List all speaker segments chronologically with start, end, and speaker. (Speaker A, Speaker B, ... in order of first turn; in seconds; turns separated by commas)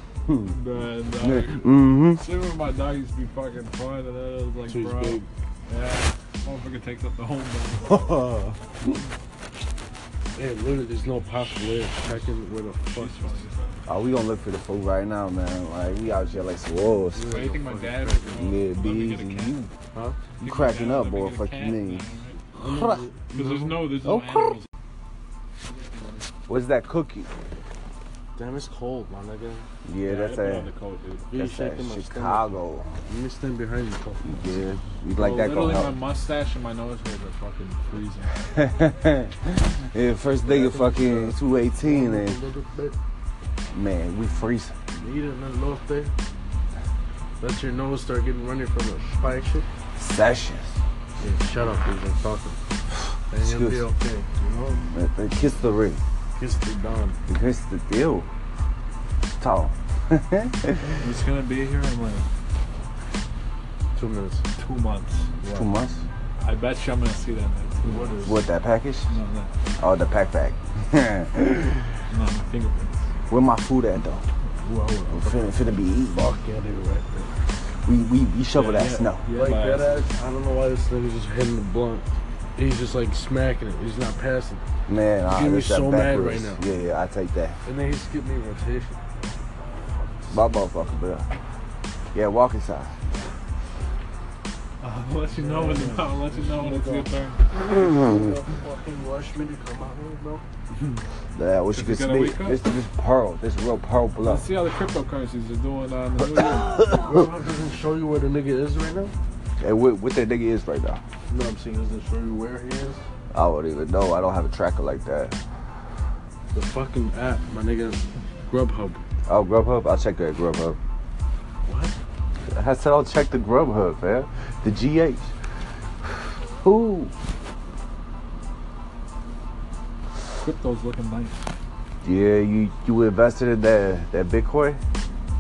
Speaker A: 0.2-0.6, Speaker B: 0.5-8.1, Speaker A: 1.2-2.2, Speaker C: 4.7-5.3, Speaker A: 7.9-8.6, Speaker C: 10.3-13.4, Speaker B: 12.0-12.3, Speaker B: 12.9-13.8, Speaker A: 13.9-17.3, Speaker C: 17.1-18.5, Speaker B: 17.2-19.6, Speaker A: 18.4-19.7, Speaker C: 19.9-20.2, Speaker B: 20.4-22.4, Speaker A: 20.4-22.1, Speaker C: 22.6-23.8, Speaker A: 22.6-23.0, Speaker B: 23.3-24.7, Speaker A: 24.0-24.5, Speaker B: 25.8-26.1, Speaker A: 26.5-27.3, Speaker C: 28.4-29.7, Speaker A: 29.8-30.7, Speaker B: 30.0-31.3, Speaker C: 31.3-34.5, Speaker A: 31.3-33.0, Speaker A: 34.2-35.9, Speaker B: 35.1-38.3, Speaker A: 38.5-42.4, Speaker C: 40.4-43.0, Speaker A: 43.7-44.8, Speaker C: 45.0-46.1, Speaker C: 47.4-49.7, Speaker A: 50.0-50.8, Speaker C: 51.2-52.6, Speaker C: 53.3-54.8, Speaker A: 53.4-53.8, Speaker A: 54.9-56.0, Speaker C: 56.3-57.2, Speaker A: 57.3-58.3, Speaker A: 59.4-61.0, Speaker B: 61.0-62.3, Speaker C: 63.9-64.4, Speaker B: 64.6-65.3, Speaker C: 65.4-65.7, Speaker A: 65.5-66.0, Speaker B: 66.4-68.2, Speaker C: 67.8-68.4, Speaker A: 68.2-69.1, Speaker B: 69.1-69.5, Speaker A: 69.8-71.9, Speaker B: 72.1-73.1, Speaker A: 73.3-74.3, Speaker C: 74.6-75.5, Speaker A: 75.1-76.3, Speaker C: 76.2-77.3, Speaker A: 77.8-79.2, Speaker B: 78.6-80.1, Speaker C: 78.6-84.6, Speaker A: 84.9-87.6, Speaker C: 85.3-86.6, Speaker C: 87.6-89.0, Speaker C: 89.9-90.5, Speaker A: 90.3-91.3, Speaker A: 92.1-93.0, Speaker B: 94.8-97.4, Speaker C: 95.3-97.1, Speaker C: 97.7-100.5, Speaker A: 101.3-104.5, Speaker B: 101.7-102.6, Speaker B: 104.2-106.8, Speaker A: 106.4-107.3, Speaker C: 106.8-109.1, Speaker A: 109.6-111.0, Speaker C: 111.3-113.0, Speaker A: 113.3-115.4, Speaker C: 116.5-119.0, Speaker A: 119.3-120.8, Speaker C: 121.6-122.0, Speaker A: 122.5-125.3, Speaker A: 126.6-127.1, Speaker B: 130.4-131.4, Speaker A: 132.0-134.8